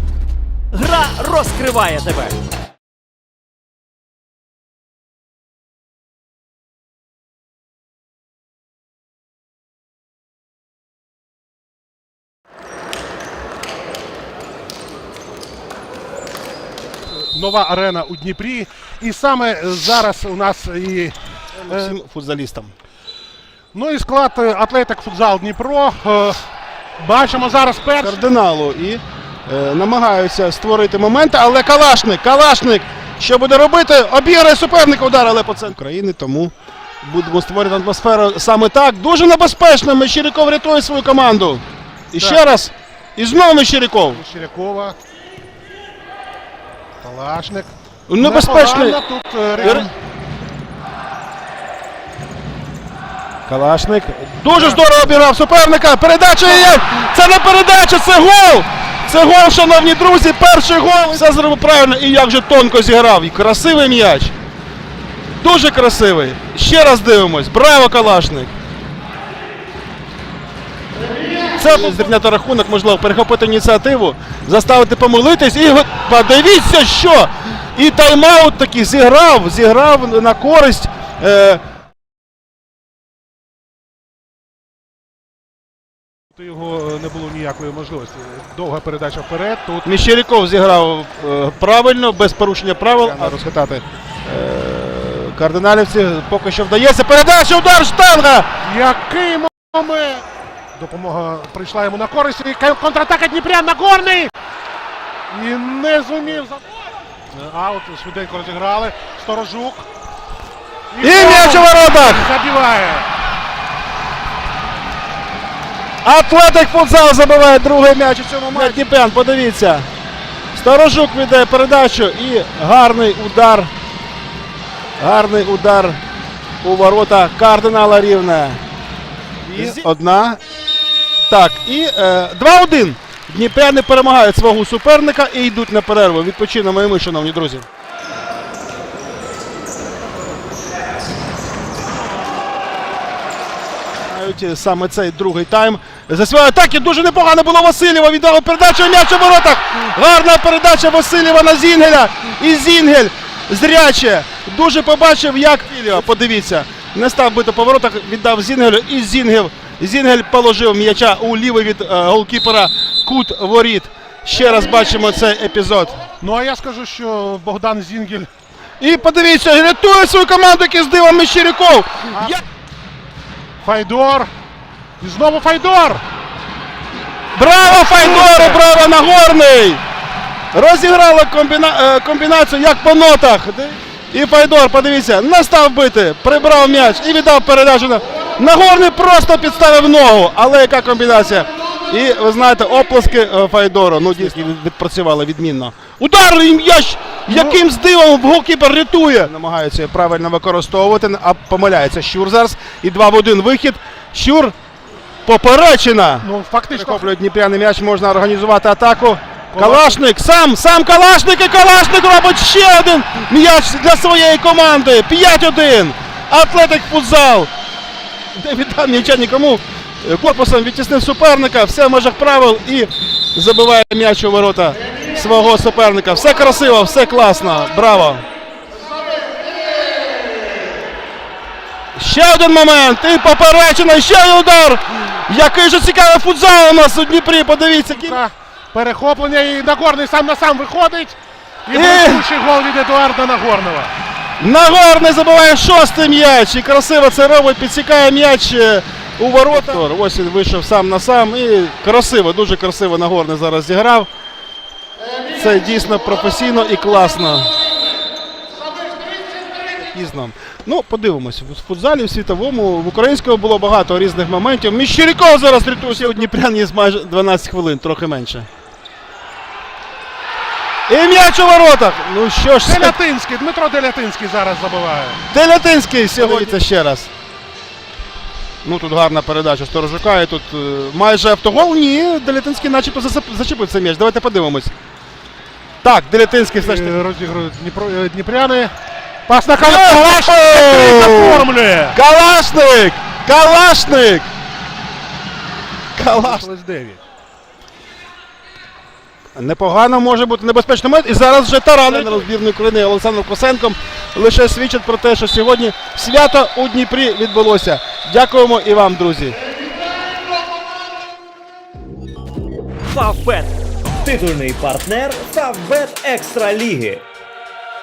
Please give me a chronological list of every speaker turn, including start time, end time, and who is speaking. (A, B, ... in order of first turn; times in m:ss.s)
0:00.7-0:02.4 A
0:17.1-0:22.0 B
0:21.6-0:22.7 C
0:23.7-0:26.4 B
0:27.0-0:28.2 B
0:28.0-0:44.2 C
0:44.1-0:44.9 B
0:47.0-0:49.9 B
0:48.1-0:49.0 C
0:49.6-0:49.9 C
0:53.5-1:04.3 C
0:54.5-0:54.8 B
1:05.4-1:08.5 C
1:11.5-1:21.6 C
1:26.3-1:30.0 B
1:29.8-1:38.5 C
1:38.6-1:40.2 B
1:40.8-1:44.3 B
1:45.3-1:46.6 B
1:47.3-1:49.9 B
1:50.9-1:53.1 B
1:51.0-1:52.3 C
1:56.0-1:59.9 C
2:00.5-2:03.7 C
2:05.0-2:06.0 C
2:06.6-2:08.6 C
2:09.5-2:10.4 C
2:09.5-2:09.8 B
2:11.3-2:17.6 C
2:24.0-2:46.0 C
2:46.2-2:48.3 B
2:48.8-2:52.4 C
2:53.6-2:54.3 B
2:55.0-2:56.0 B
2:57.3-2:59.8 C
2:57.9-2:58.6 B
3:00.5-3:24.5 C
3:17.3-3:17.6 B
3:25.2-3:37.5 C
3:26.2-3:27.1 B
3:29.5-3:30.0 B
3:38.3-3:48.2 C
3:51.9-3:58.2 C
3:57.9-4:01.2 B
4:01.7-4:03.9 B
4:01.7-4:02.2 C
4:04.4-4:14.1 C
4:15.3-4:17.5 C
4:19.8-4:28.5 C
4:25.9-4:26.2 B
4:30.9-4:32.9 C
4:32.6-4:35.2 B
4:35.3-4:37.1 C
4:36.2-4:36.5 B
4:38.6-4:44.7 C
4:45.8-4:47.0 C
4:46.6-4:48.7 B
4:49.3-4:52.0 B
4:49.6-4:54.3 C
4:56.0-4:56.5 C
4:56.1-4:57.0 B
4:59.4-5:09.4 C
5:12.9-5:17.0 A